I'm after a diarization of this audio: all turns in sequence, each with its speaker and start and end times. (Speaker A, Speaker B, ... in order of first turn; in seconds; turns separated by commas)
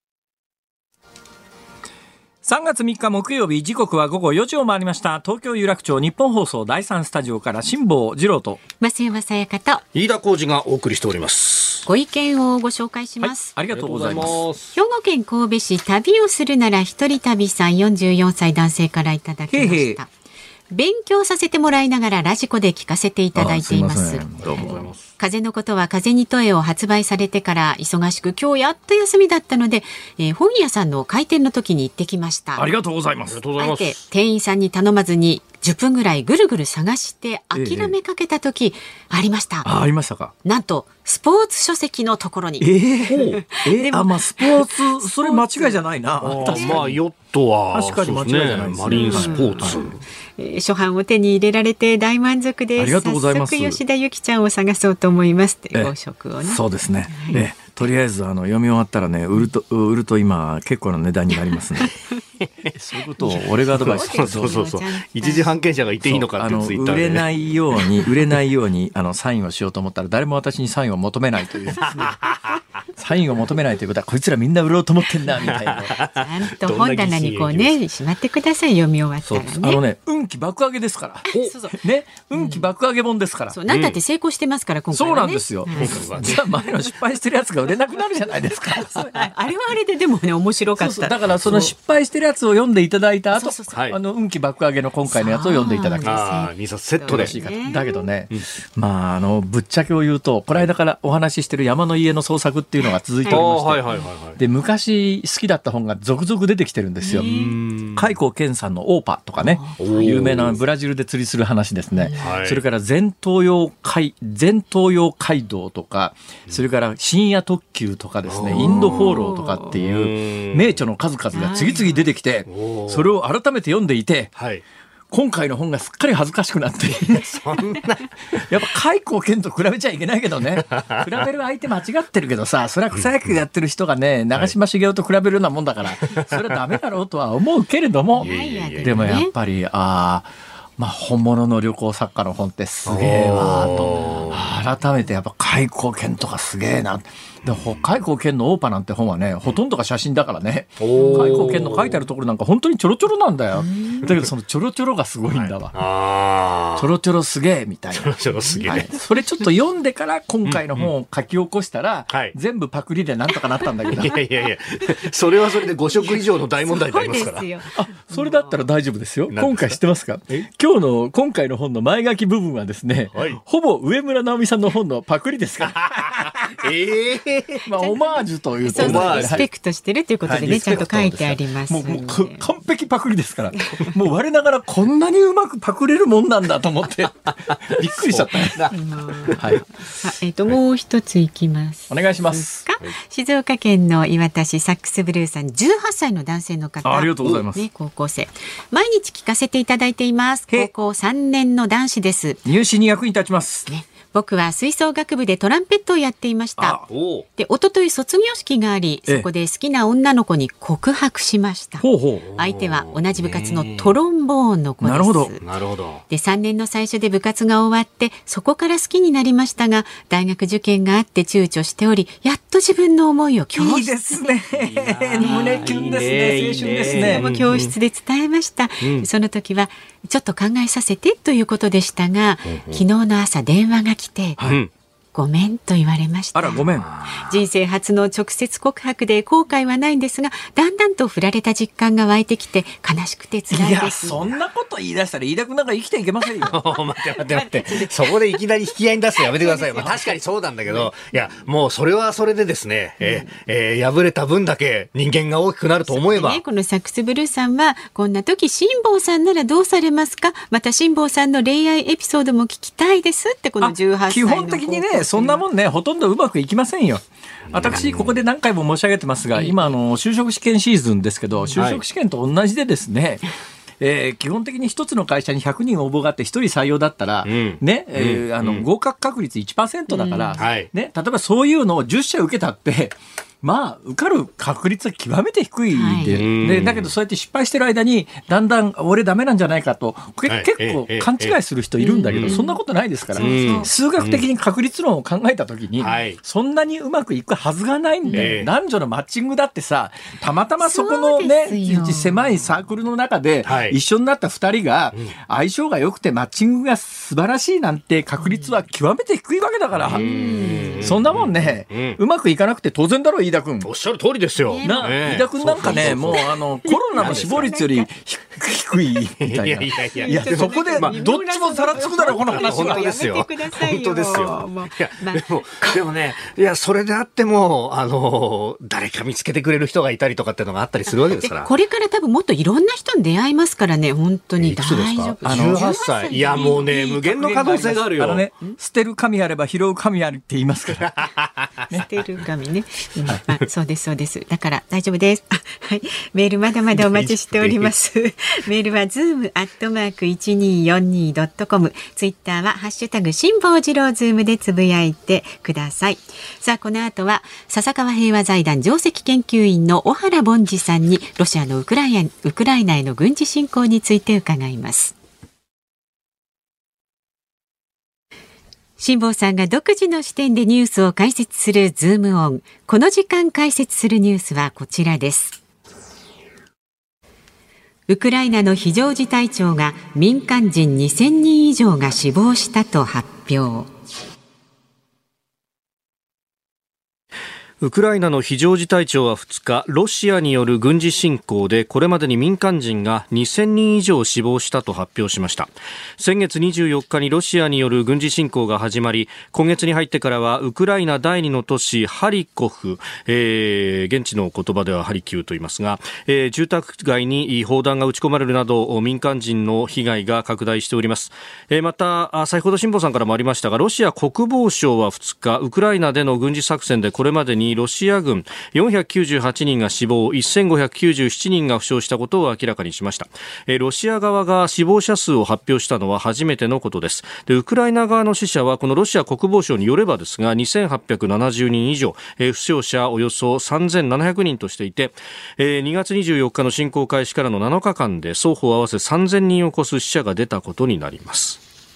Speaker A: 2.4-8.6, Speaker B: 8.8-9.8, Speaker C: 9.9-11.9, Speaker B: 11.9-13.5, Speaker A: 13.2-14.4, Speaker C: 13.7-14.7, Speaker B: 14.7-20.1, Speaker A: 19.5-20.0, Speaker B: 20.7-24.2, Speaker A: 23.4-24.8, Speaker C: 24.4-25.0, Speaker B: 25.2-32.7, Speaker A: 32.5-33.4, Speaker C: 33.3-34.0, Speaker B: 33.6-39.7, Speaker A: 37.5-37.9, Speaker A: 39.6-40.3, Speaker B: 40.4-42.7, Speaker A: 42.6-47.0, Speaker C: 43.1-43.4, Speaker B: 43.4-45.8, Speaker C: 46.2-50.0, Speaker B: 46.5-46.9, Speaker A: 47.7-49.9, Speaker B: 48.9-49.8, Speaker B: 50.4-57.4, Speaker A: 52.8-53.8, Speaker A: 56.4-62.0, Speaker A: 62.7-64.6, Speaker B: 63.2-65.5, Speaker C: 63.7-67.3, Speaker A: 66.0-72.2, Speaker C: 71.9-72.4, Speaker A: 73.0-76.0, Speaker C: 75.4-77.7, Speaker B: 75.9-79.8, Speaker A: 79.4-83.6, Speaker B: 81.3-81.8, Speaker B: 82.4-82.6, Speaker B: 83.5-86.4, Speaker C: 83.7-84.0, Speaker A: 84.9-89.1, Speaker C: 85.7-86.4, Speaker B: 88.7-91.7, Speaker A: 90.8-96.2, Speaker C: 91.3-91.7, Speaker B: 93.3-93.7, Speaker C: 93.7-94.0, Speaker B: 95.1-98.0, Speaker C: 96.0-97.4, Speaker A: 97.0-103.8, Speaker C: 103.3-104.4, Speaker A: 104.4-107.3, Speaker B: 107.0-107.6, Speaker C: 107.1-108.1, Speaker A: 107.9-124.3, Speaker B: 109.4-110.1, Speaker C: 109.8-110.6, Speaker B: 112.0-112.3, Speaker C: 112.2-112.6, Speaker C: 118.3-120.8, Speaker B: 118.5-119.8, Speaker B: 121.3-122.0, Speaker C: 122.5-123.2, Speaker C: 124.4-124.6, Speaker A: 125.1-127.4, Speaker C: 127.0-128.1, Speaker A: 128.4-138.3, Speaker C: 130.7-131.1, Speaker C: 136.0-136.3, Speaker B: 138.1-139.3, Speaker C: 138.2-139.2, Speaker A: 138.8-155.8, Speaker C: 142.9-144.4, Speaker C: 147.4-147.9, Speaker C: 150.8-152.0, Speaker B: 151.0-151.4, Speaker B: 153.6-154.1, Speaker C: 155.3-156.9, Speaker A: 156.8-164.2, Speaker C: 157.9-158.9, Speaker C: 160.4-160.9, Speaker C: 162.1-162.3, Speaker C: 163.9-167.5, Speaker B: 165.9-168.5, Speaker A: 167.7-176.7, Speaker C: 169.3-169.8, Speaker C: 173.1-173.4, Speaker C: 175.7-177.6, Speaker A: 177.6-179.5, Speaker B: 178.6-182.5, Speaker C: 178.7-179.5, Speaker A: 180.2-188.6, Speaker C: 180.3-180.9, Speaker C: 187.5-189.6, Speaker B: 188.7-202.4, Speaker A: 189.4-189.6, Speaker A: 191.9-192.7, Speaker A: 196.8-197.7, Speaker A: 202.4-203.7, Speaker B: 203.7-206.8, Speaker A: 206.6-206.9, Speaker C: 206.9-207.2, Speaker B: 207.4-211.9, Speaker A: 211.8-212.3, Speaker C: 212.3-213.9, Speaker B: 212.4-215.4, Speaker A: 214.8-215.3, Speaker C: 215.4-216.0, Speaker B: 216.1-224.4, Speaker A: 223.5-227.3, Speaker C: 224.5-227.7, Speaker B: 225.2-226.1, Speaker B: 226.9-234.4, Speaker C: 228.8-229.1, Speaker C: 232.5-232.8, Speaker C: 234.4-234.7, Speaker B: 235.1-244.3, Speaker A: 236.3-236.9, Speaker C: 236.8-237.3, Speaker A: 243.5-246.6, Speaker C: 246.4-256.4, Speaker A: 247.3-247.8, Speaker B: 247.4-247.9, Speaker B: 249.2-250.0, Speaker A: 249.8-250.1, Speaker B: 253.0-253.3, Speaker B: 255.9-265.4, Speaker A: 263.6-273.2, Speaker C: 267.5-268.1, Speaker C: 271.5-271.8, Speaker A: 273.8-310.1, Speaker C: 277.2-278.7, Speaker B: 279.9-280.5, Speaker C: 280.4-280.7, Speaker B: 285.7-286.2, Speaker C: 286.1-286.9, Speaker C: 290.3-291.4, Speaker B: 291.8-292.6, Speaker C: 292.1-292.4, Speaker B: 293.1-293.7, Speaker C: 293.2-294.2, Speaker C: 295.8-296.2, Speaker B: 298.1-298.3, Speaker C: 298.1-298.5, Speaker B: 300.6-302.1, Speaker C: 303.4-303.8, Speaker C: 309.8-312.0, Speaker B: 309.9-310.9, Speaker A: 310.8-313.7, Speaker C: 313.6-316.2, Speaker B: 314.4-314.9, Speaker A: 314.6-322.9, Speaker B: 315.6-317.9, Speaker C: 316.9-317.6, Speaker C: 319.2-321.0, Speaker B: 319.9-325.8, Speaker C: 321.8-331.5, Speaker B: 330.9-336.6, Speaker C: 334.4-338.2, Speaker A: 335.2-341.1, Speaker C: 340.8-341.6, Speaker B: 341.7-364.9, Speaker C: 346.7-347.7, Speaker B: 368.8-375.4, Speaker B: 377.9-383.7, Speaker C: 387.6-441.4